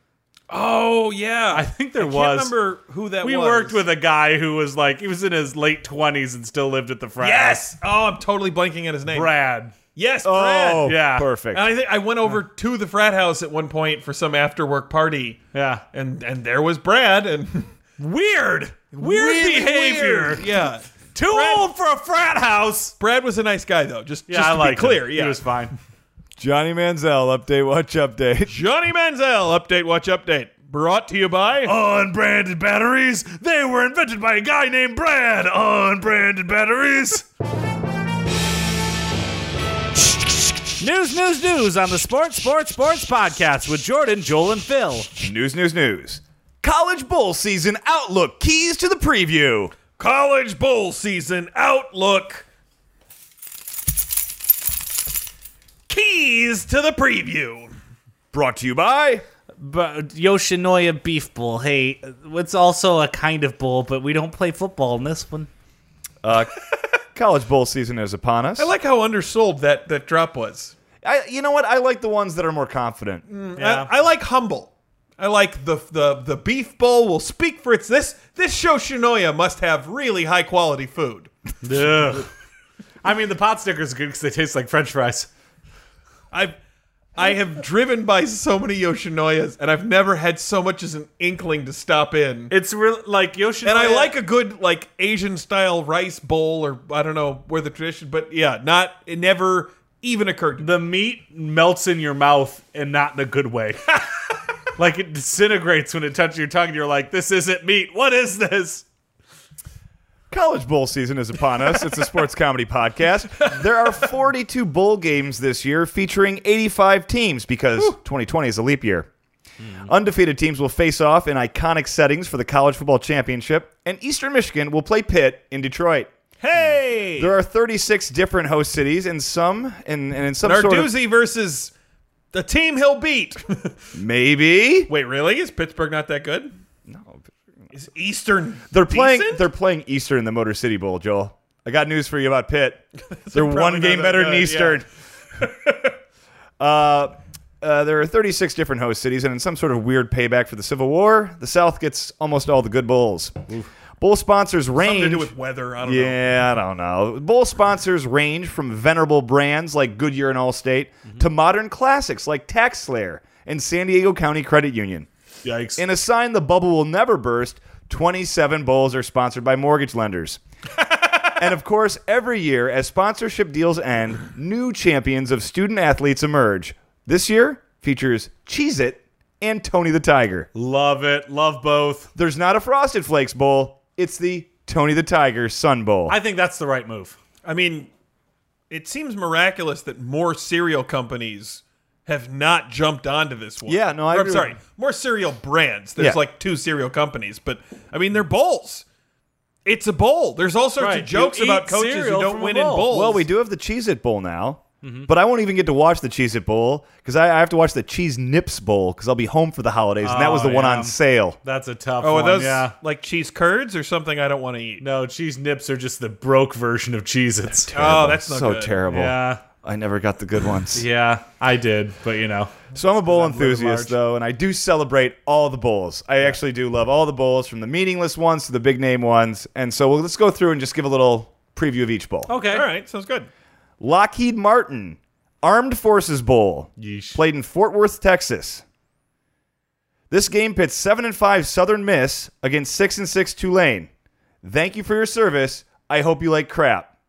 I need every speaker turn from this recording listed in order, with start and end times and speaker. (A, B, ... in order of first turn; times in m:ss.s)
0:00.5-0:03.8 A
0:01.5-0:02.5 B
0:03.2-0:07.6 B
0:07.2-0:09.3 A
0:09.1-0:09.7 B
0:09.9-0:10.9 A
0:10.2-0:11.6 C
0:10.8-0:11.3 B
0:11.5-0:15.4 A
0:15.5-0:15.8 B
0:15.9-0:17.7 A
0:18.0-0:20.5 B
0:18.9-0:21.7 A
0:21.1-0:22.9 B
0:23.0-0:25.5 A
0:24.3-0:25.7 B
0:26.4-0:28.5 C
0:28.5-0:31.7 A
0:31.6-0:37.2 B
0:40.8-0:45.1 B
0:45.2-0:49.7 C
0:50.0-0:52.4 A
0:55.9-0:57.7 A
0:58.3-0:59.2 C
0:59.6-1:05.5 B
1:06.2-1:06.5 C
1:07.1-1:08.7 C
1:08.6-1:10.7 A
1:11.0-1:13.2 C
1:13.3-1:21.3 A
1:13.6-1:13.9 B
1:21.6-1:22.3 B
1:23.0-1:25.3 B
1:27.1-1:32.5 A
1:32.5-1:34.1 B
1:33.6-1:40.7 A
1:40.6-1:44.0 B
1:44.8-1:48.8 B
1:50.3-1:59.1 C
1:59.8-2:06.1 C
2:06.4-2:07.3 A
2:07.2-2:10.9 C
2:10.4-2:11.7 A
2:12.3-2:13.8 A
2:13.9-2:14.9 C
2:14.9-2:16.5 A
2:16.9-2:17.3 C
2:17.7-2:19.5 A
2:18.7-2:24.9 C
2:23.1-2:24.8 A
2:25.4-2:25.9 A
2:26.6-2:33.4 C
2:34.0-2:35.3 C
2:34.8-2:36.2 A
2:35.8-2:45.1 C
2:45.4-2:45.8 B
2:45.8-2:50.4 C
2:51.4-3:00.5 C
3:00.5-3:02.1 B
3:02.1-3:06.2 C
3:06.1-3:07.2 B
3:07.4-3:07.9 A
3:08.7-3:18.8 A
3:13.6-3:14.5 C
3:19.6-3:23.2 A
3:20.8-3:22.9 B
3:22.9-3:31.4 C
3:24.8-3:25.1 B
3:30.0-3:32.7 B
3:32.0-3:34.8 A
3:34.8-3:37.8 B
3:37.7-3:38.8 A
3:37.7-3:40.8 C
3:38.9-3:39.4 B
3:40.7-3:43.9 B
3:42.7-3:52.3 C
3:52.3-3:52.6 B
3:52.5-3:53.3 A
3:53.8-3:58.6 C
3:56.8-3:57.2 B
4:00.1-4:03.9 C
4:04.4-4:06.9 C